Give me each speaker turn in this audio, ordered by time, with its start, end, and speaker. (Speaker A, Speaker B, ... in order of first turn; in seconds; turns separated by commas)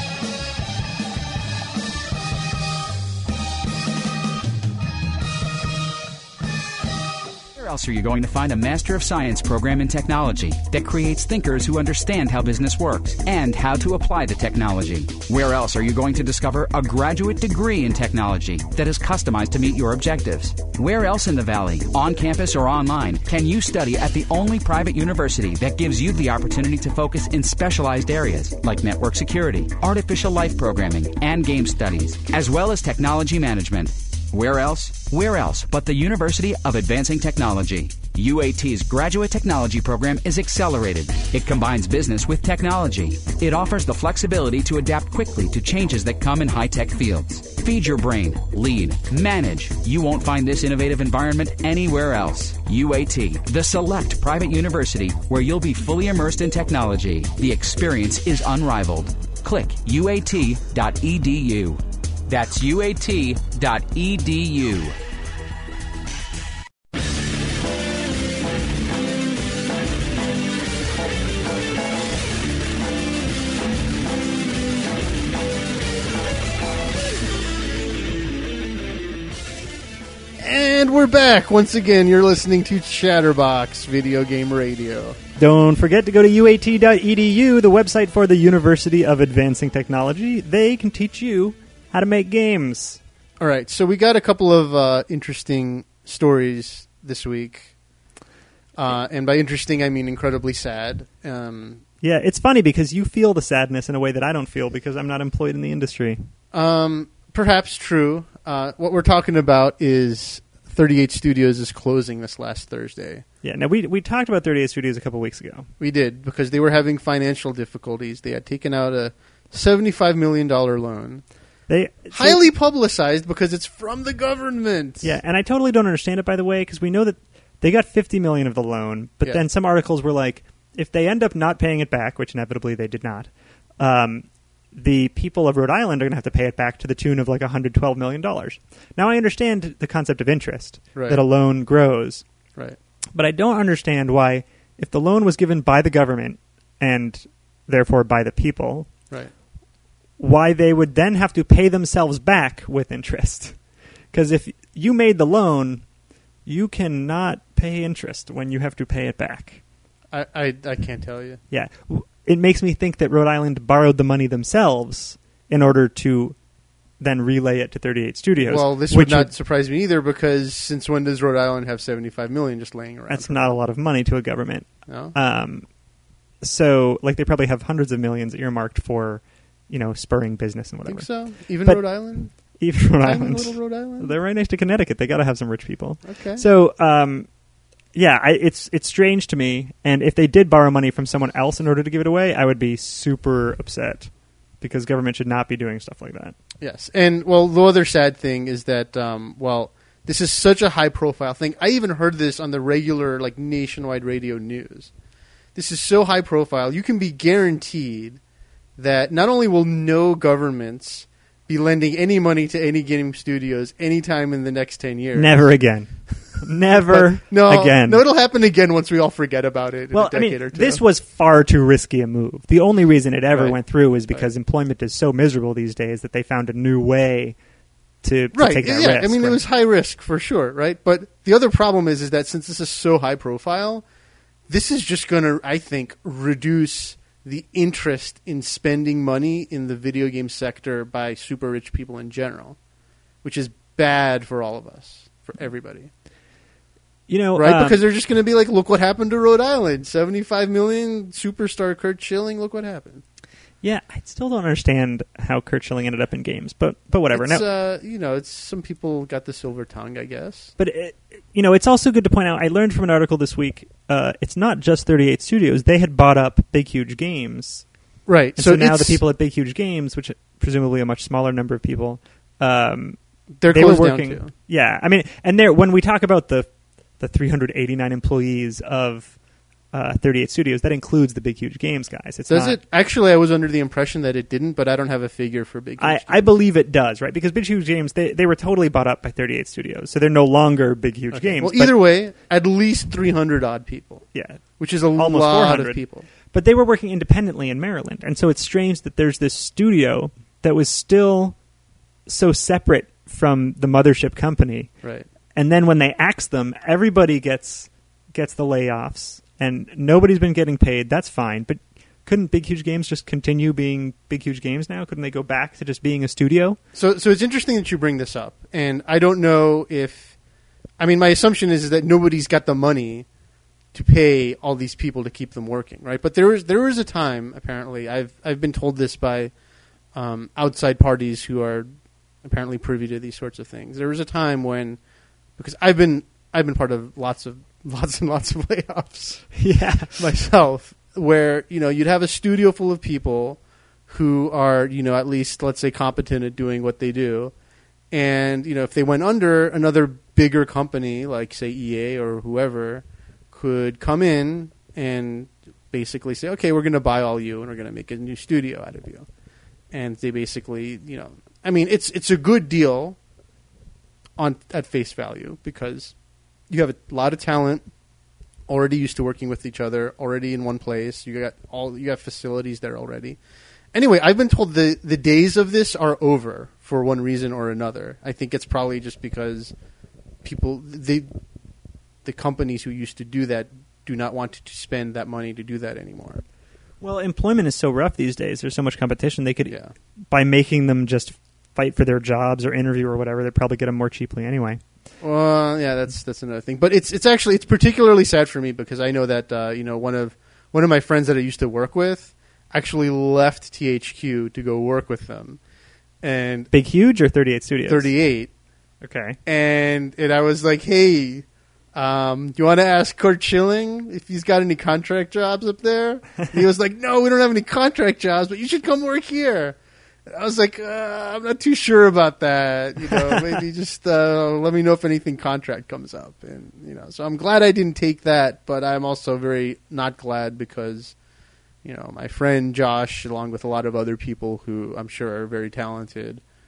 Speaker A: 7.5-65.0, Speaker B: 80.4-85.2, Speaker C: 85.3-93.0, Speaker B: 93.4-97.7, Speaker B: 98.8-101.8, Speaker C: 102.0-106.3, Speaker B: 106.5-113.2, Speaker C: 113.4-115.7, Speaker B: 115.8-121.2, Speaker C: 121.7-122.4, Speaker B: 122.1-125.2, Speaker C: 125.0-142.2, Speaker B: 140.9-141.2, Speaker C: 143.1-148.9, Speaker C: 150.2-153.6, Speaker C: 154.1-155.8, Speaker C: 156.4-159.6, Speaker B: 160.1-161.4, Speaker C: 161.5-166.4, Speaker C: 167.0-169.3, Speaker B: 168.4-173.5, Speaker C: 173.1-175.7, Speaker B: 174.9-175.1, Speaker C: 176.4-187.3, Speaker B: 180.8-184.2, Speaker B: 186.0-186.4, Speaker C: 187.9-196.3, Speaker B: 196.6-204.9, Speaker B: 205.5-208.2, Speaker B: 208.8-215.5, Speaker C: 215.1-218.0, Speaker B: 216.9-220.8, Speaker C: 219.9-227.3, Speaker B: 223.3-224.3, Speaker C: 228.0-229.4, Speaker B: 228.3-233.8, Speaker B: 234.5-242.6, Speaker B: 243.2-245.9, Speaker C: 247.1-247.8, Speaker B: 247.4-253.0, Speaker C: 253.6-257.4, Speaker B: 257.1-260.5, Speaker C: 260.6-267.6, Speaker B: 268.1-269.0, Speaker C: 268.4-279.2, Speaker B: 273.4-274.3, Speaker C: 279.7-282.6, Speaker B: 282.3-286.3, Speaker C: 285.8-291.7, Speaker B: 291.1-294.1, Speaker C: 294.1-301.4, Speaker B: 294.6-296.1, Speaker C: 302.1-304.7, Speaker B: 304.8-305.1, Speaker C: 305.3-316.6, Speaker B: 316.7-320.1, Speaker B: 320.8-323.1, Speaker B: 323.7-329.3, Speaker B: 329.9-331.7, Speaker B: 332.2-334.8, Speaker B: 335.4-339.4, Speaker C: 339.3-340.0, Speaker B: 339.9-347.3, Speaker B: 347.9-359.1, Speaker B: 359.7-363.0, Speaker B: 364.2-365.9, Speaker B: 366.5-367.7, Speaker B: 368.5-373.2, Speaker B: 373.7-379.5, Speaker B: 380.2-381.1, Speaker B: 382.0-386.2, Speaker C: 386.8-389.6, Speaker B: 389.5-389.7, Speaker C: 390.1-394.6, Speaker B: 395.0-405.4, Speaker B: 406.0-406.5, Speaker C: 406.5-407.9, Speaker B: 407.7-408.3, Speaker C: 408.8-409.2, Speaker B: 409.2-430.9, Speaker B: 431.6-436.2